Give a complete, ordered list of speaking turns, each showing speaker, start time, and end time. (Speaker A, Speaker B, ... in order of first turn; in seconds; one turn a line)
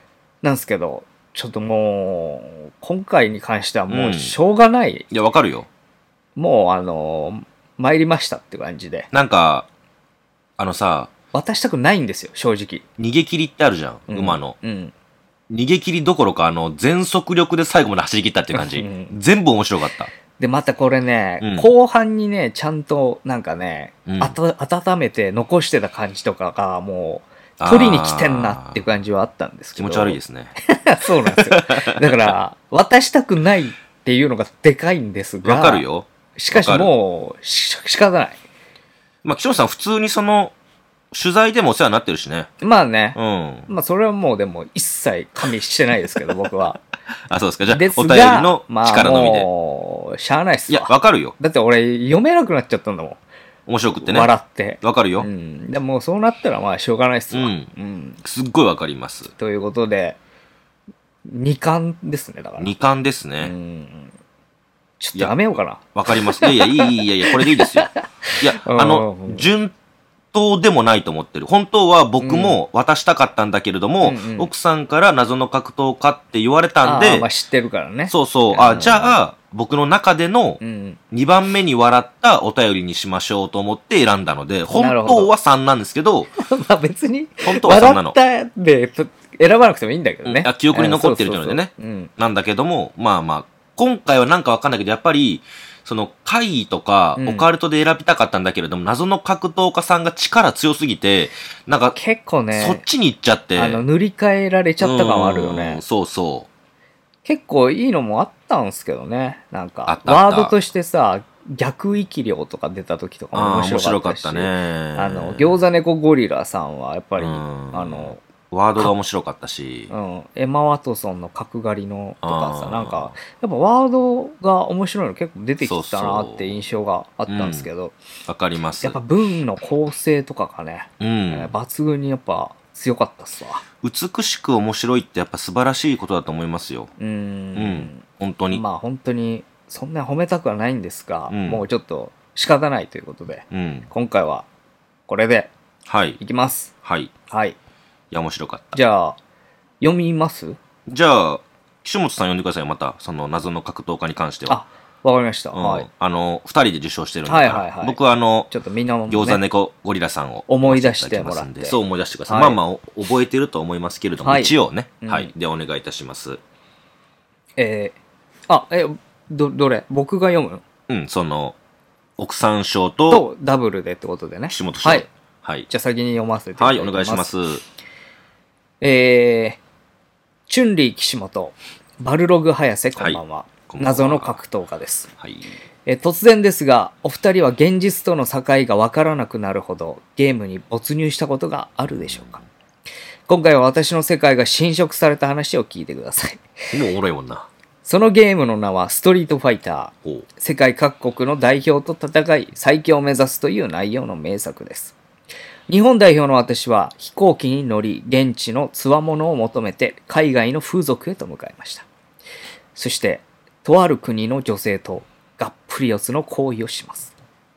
Speaker A: 0.4-5.1
Speaker B: 3.9-4.3
Speaker B: 5.1-5.7
Speaker A: 6.3-9.1
Speaker B: 9.1-9.7
Speaker B: 10.6-11.1
Speaker A: 11.3-12.8
Speaker B: 13.0-14.5
Speaker A: 14.1-14.9
Speaker B: 15.5-20.1
Speaker A: 18.5-19.1
Speaker A: 20.4-35.8
Speaker B: 21.4-21.7
Speaker B: 24.1-24.4
Speaker B: 27.6-28.8
Speaker B: 29.8-30.5
Speaker B: 31.2-32.3
Speaker B: 35.4-36.9
Speaker A: 36.4-38.4
Speaker B: 39.2-40.5
Speaker B: 41.1-42.5
Speaker A: 42.6-46.8
Speaker B: 43.1-43.7
Speaker B: 47.3-49.5
Speaker A: 47.7-53.2
Speaker B: 50.7-51.3
Speaker B: 53.7-55.3
Speaker A: 54.0-58.2
Speaker B: 57.3-57.7
Speaker B: 58.2-59.3
Speaker A: 59.4-60.2
Speaker A: 61.2-62.7
Speaker B: 62.6-63.5
Speaker A: 63.4-64.1
Speaker A: 65.0-69.5
Speaker B: 65.1-69.7
Speaker B: 70.3-77.3
Speaker A: 72.2-72.6
Speaker A: 74.0-74.5
Speaker A: 76.8-79.2
Speaker B: 78.1-80.6
Speaker A: 80.6-81.0
Speaker B: 81.1-86.3
Speaker A: 84.7-85.3
Speaker A: 86.4-92.1
Speaker B: 87.4-88.2
Speaker B: 90.2-102.0
Speaker A: 97.2-97.5
Speaker A: 101.9-102.8
Speaker B: 102.5-103.8
Speaker A: 103.5-105.8
Speaker B: 104.8-106.5
Speaker A: 107.2-118.2
Speaker B: 109.9-110.5
Speaker B: 113.3-115.6
Speaker B: 117.2-119.9
Speaker A: 119.9-127.9
Speaker B: 122.2-123.2
Speaker B: 125.6-126.5
Speaker B: 127.3-127.7
Speaker B: 128.3-129.0
Speaker A: 128.8-133.6
Speaker B: 131.0-131.5
Speaker B: 133.8-136.9
Speaker A: 137.0-144.5
Speaker B: 137.5-138.6
Speaker B: 141.3-141.6
Speaker B: 143.5-143.9
Speaker A: 145.1-145.5
Speaker B: 145.8-146.2
Speaker A: 146.2-146.7
Speaker B: 146.8-147.1
Speaker A: 147.3-147.6
Speaker B: 148.1-148.8
Speaker A: 148.7-149.2
Speaker A: 149.8-150.6
Speaker B: 150.9-154.6
Speaker A: 154.5-155.9
Speaker B: 155.5-158.5
Speaker A: 157.3-158.0
Speaker A: 158.5-159.4
Speaker B: 159.1-166.4
Speaker A: 160.5-162.6
Speaker A: 164.2-165.3
Speaker A: 167.6-167.9
Speaker A: 168.5-170.6
Speaker B: 170.9-171.6
Speaker B: 172.2-173.2
Speaker A: 173.1-175.1
Speaker B: 174.5-175.7
Speaker A: 175.7-177.3
Speaker B: 176.6-177.6
Speaker A: 178.8-179.6
Speaker A: 180.5-185.1
Speaker B: 183.0-184.4
Speaker B: 185.2-185.4
Speaker A: 185.8-192.4
Speaker B: 192.0-192.3
Speaker A: 193.3-196.4
Speaker B: 196.7-197.5
Speaker A: 197.8-204.9
Speaker A: 205.7-211.8
Speaker A: 212.7-217.1